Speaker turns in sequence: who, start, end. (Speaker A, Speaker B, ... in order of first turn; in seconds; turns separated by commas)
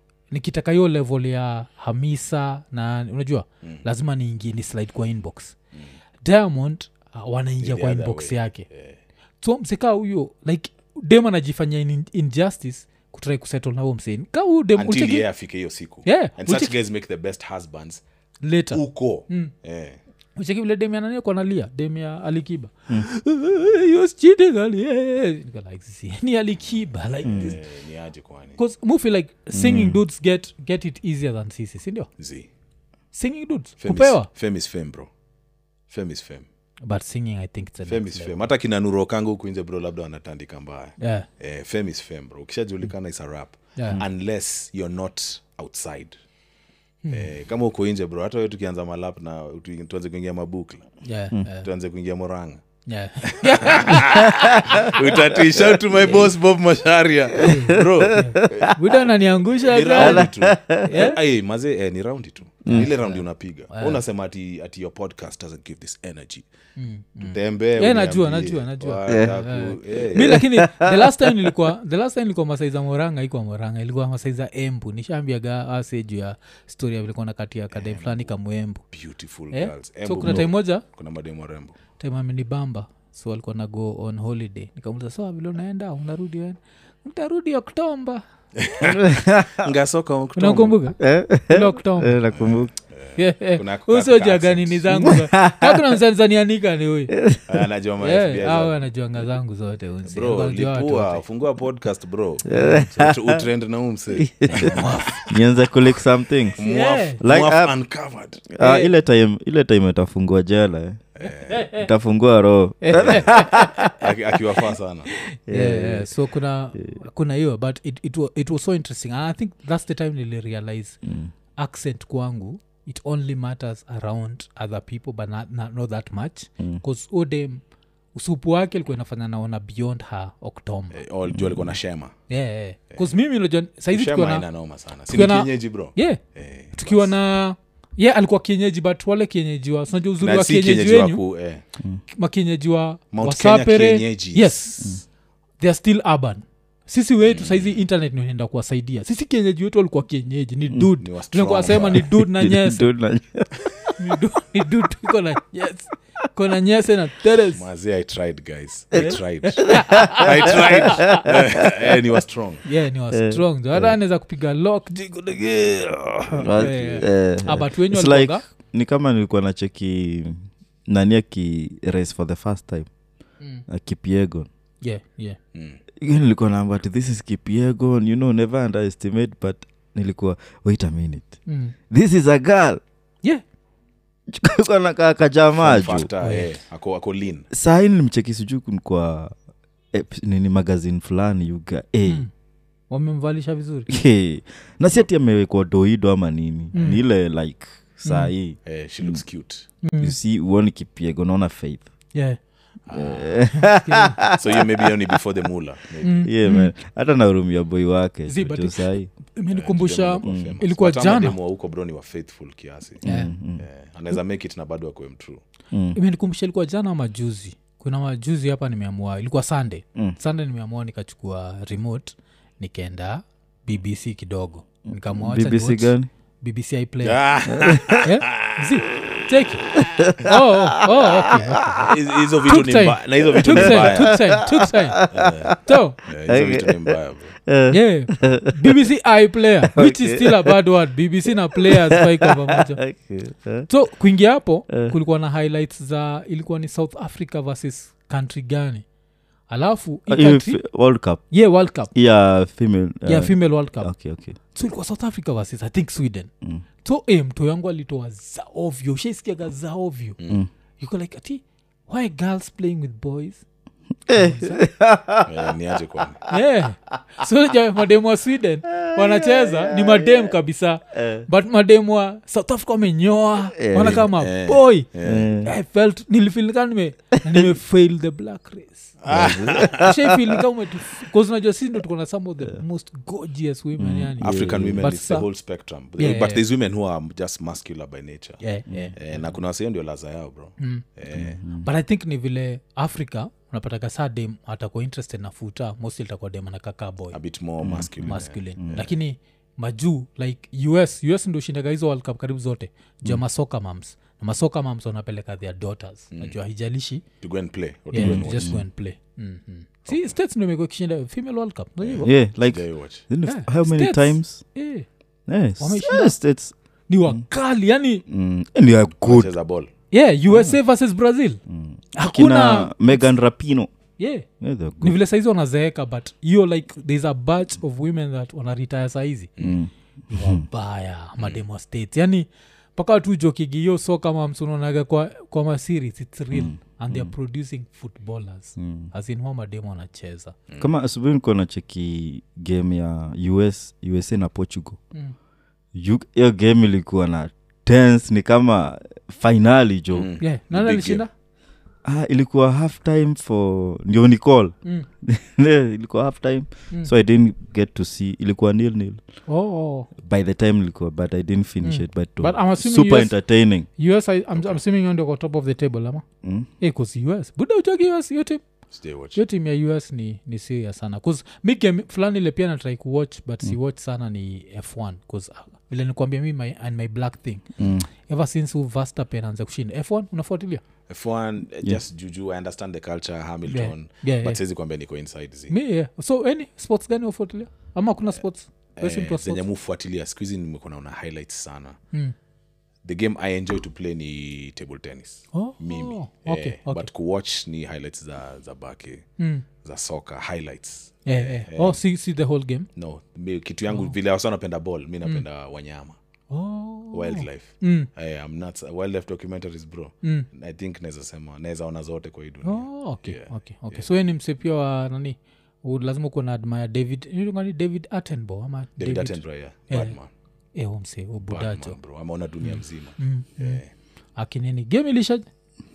Speaker A: 0.3-5.5, Speaker A: 6.2-8.7, Speaker B: 7.6-9.0, Speaker A: 9.4-15.3, Speaker B: 14.8-18.0, Speaker A: 16.0-16.7, Speaker A: 18.4-19.5, Speaker B: 18.7-20.0, Speaker A: 20.4-27.6, Speaker C: 27.2-27.5, Speaker B: 27.3-28.6, Speaker A: 28.6-32.1, Speaker C: 29.5-30.0, Speaker B: 32.2-32.5, Speaker A: 33.1-34.3, Speaker B: 33.8-35.1, Speaker B: 35.9-36.5, Speaker A: 36.8-38.5, Speaker B: 37.8-46.1, Speaker A: 41.0-41.3, Speaker A: 43.8-44.0, Speaker A: 47.0-47.3, Speaker B: 47.1-50.9, Speaker A: 51.0-51.7, Speaker B: 51.5-52.6, Speaker A: 52.9-55.0, Speaker B: 53.3-66.5, Speaker A: 56.0-56.2, Speaker A: 57.4-61.2, Speaker C: 57.5-58.7, Speaker C: 60.0-60.9, Speaker C: 62.6-62.9, Speaker A: 62.7-64.0, Speaker A: 66.8-78.9, Speaker B: 67.2-70.4, Speaker C: 69.1-69.3, Speaker C: 70.2-70.9, Speaker B: 77.7-78.3, Speaker B: 78.9-81.8, Speaker A: 79.5-80.8, Speaker A: 82.0-88.2, Speaker B: 88.6-90.8, Speaker C: 89.0-89.7, Speaker A: 90.3-92.2, Speaker C: 91.0-92.8, Speaker B: 92.3-95.2, Speaker A: 93.1-97.2, Speaker C: 95.0-95.7, Speaker C: 97.2-97.5, Speaker B: 97.5-99.3, Speaker A: 98.0-101.2, Speaker B: 100.0-105.3, Speaker C: 102.5-103.4, Speaker A: 102.5-102.8, Speaker C: 104.2-104.7, Speaker A: 104.5-105.2, Speaker C: 105.3-107.7, Speaker B: 106.5-108.4, Speaker A: 106.6-107.2, Speaker C: 108.5-113.9, Speaker A: 108.6-108.9, Speaker B: 111.2-111.7, Speaker A: 111.2-111.9, Speaker A: 112.8-113.8, Speaker B: 112.9-115.1, Speaker A: 115.3-131.0, Speaker C: 115.5-117.0, Speaker C: 121.0-121.3, Speaker B: 130.9-132.1, Speaker C: 131.3-131.8, Speaker A: 132.3-134.6, Speaker B: 133.9-137.1, Speaker A: 135.1-136.2, Speaker A: 136.7-141.2, Speaker B: 140.2-141.6, Speaker A: 142.1-145.1, Speaker B: 143.1-144.7, Speaker A: 145.6-152.9, Speaker B: 147.2-147.8, Speaker B: 151.0-152.0, Speaker C: 151.7-153.9, Speaker A: 154.0-157.6, Speaker B: 157.5-162.7, Speaker A: 158.9-161.2, Speaker C: 159.7-160.2, Speaker A: 162.6-168.5, Speaker C: 163.1-164.0, Speaker B: 166.2-167.1, Speaker C: 166.4-174.5, Speaker A: 173.4-173.6, Speaker A: 174.8-175.4, Speaker B: 175.5-175.8, Speaker C: 176.0-182.8, Speaker A: 181.4-181.7, Speaker C: 184.3-186.1, Speaker B: 185.6-187.5, Speaker A: 186.2-186.5, Speaker C: 187.5-189.3, Speaker C: 189.9-192.2, Speaker A: 192.9-193.9, Speaker C: 193.9-199.2, Speaker A: 196.7-197.0, Speaker A: 198.0-198.3, Speaker B: 198.6-199.7, Speaker A: 199.8-200.1, Speaker C: 200.0-202.2, Speaker A: 202.1-202.8, Speaker B: 202.8-203.8, Speaker C: 202.9-204.6, Speaker A: 203.5-204.3, Speaker B: 204.3-206.3, Speaker A: 206.0-206.7, Speaker C: 206.2-209.1, Speaker A: 208.3-211.4, Speaker B: 209.5-215.4, Speaker C: 210.2-210.6, Speaker C: 213.0-213.7, Speaker A: 213.0-213.3, Speaker C: 215.7-216.0, Speaker A: 215.9-227.2, Speaker C: 224.9-226.1, Speaker B: 227.0-228.5, Speaker C: 227.4-227.9, Speaker A: 228.0-231.9, Speaker B: 231.4-234.6, Speaker A: 232.5-236.0, Speaker C: 233.4-238.8, Speaker B: 235.1-237.4, Speaker A: 237.7-243.0, Speaker C: 239.7-240.7, Speaker C: 241.6-243.9, Speaker A: 243.7-248.8, Speaker A: 249.5-251.9, Speaker C: 250.1-254.4, Speaker A: 253.0-260.2, Speaker B: 260.2-260.4, Speaker A: 260.8-263.5, Speaker A: 264.0-264.7, Speaker C: 264.1-266.3, Speaker B: 265.2-266.2, Speaker A: 266.3-285.3, Speaker C: 268.8-270.0, Speaker C: 270.9-271.2, Speaker C: 273.6-274.0, Speaker B: 273.8-275.3, Speaker C: 275.0-275.5, Speaker B: 279.0-279.9, Speaker C: 279.1-280.1, Speaker C: 283.8-284.9, Speaker B: 284.2-291.4, Speaker A: 286.0-286.4, Speaker A: 288.4-289.2, Speaker C: 288.7-288.9, Speaker A: 290.6-290.8, Speaker C: 291.1-291.6, Speaker A: 291.5-297.2, Speaker B: 297.1-298.9, Speaker C: 297.6-298.7, Speaker A: 298.0-307.0, Speaker B: 307.2-308.5, Speaker A: 307.9-312.2, Speaker C: 307.9-308.6, Speaker B: 309.9-310.1, Speaker B: 311.8-313.1, Speaker C: 312.0-314.6, Speaker A: 313.2-314.9, Speaker C: 315.2-316.5, Speaker A: 315.6-318.0, Speaker C: 318.1-319.3, Speaker B: 319.0-319.7, Speaker A: 319.9-321.4, Speaker C: 320.3-320.6, Speaker C: 321.5-323.7, Speaker A: 321.9-323.1, Speaker A: 324.0-324.2, Speaker C: 324.3-325.0, Speaker A: 324.8-329.3, Speaker C: 329.4-330.5, Speaker A: 330.1-340.4, Speaker C: 336.3-337.1, Speaker C: 338.6-338.9, Speaker C: 340.6-344.9, Speaker C: 345.7-350.1, Speaker B: 349.9-351.0, Speaker A: 350.2-351.1, Speaker C: 351.8-359.2, Speaker A: 359.2-359.9, Speaker C: 359.9-363.7, Speaker A: 361.6-366.0, Speaker B: 364.4-364.6, Speaker C: 366.2-366.5, Speaker A: 366.6-368.5, Speaker B: 368.7-369.2, Speaker A: 369.1-380.6, Speaker C: 377.6-377.9, Speaker B: 380.9-385.5, Speaker A: 383.5-384.4, Speaker A: 385.5-389.4, Speaker B: 388.8-391.8, Speaker B: 392.8-399.1, Speaker A: 395.3-396.9, Speaker A: 399.2-399.4, Speaker B: 399.6-401.8, Speaker A: 401.0-402.7, Speaker B: 402.7-406.0, Speaker A: 403.7-403.9, Speaker A: 406.3-407.9, Speaker B: 406.9-413.9, Speaker A: 412.4-420.0, Speaker B: 418.8-420.1, Speaker A: 420.5-421.8, Speaker B: 421.2-423.7, Speaker A: 422.4-423.6, Speaker A: 424.1-425.3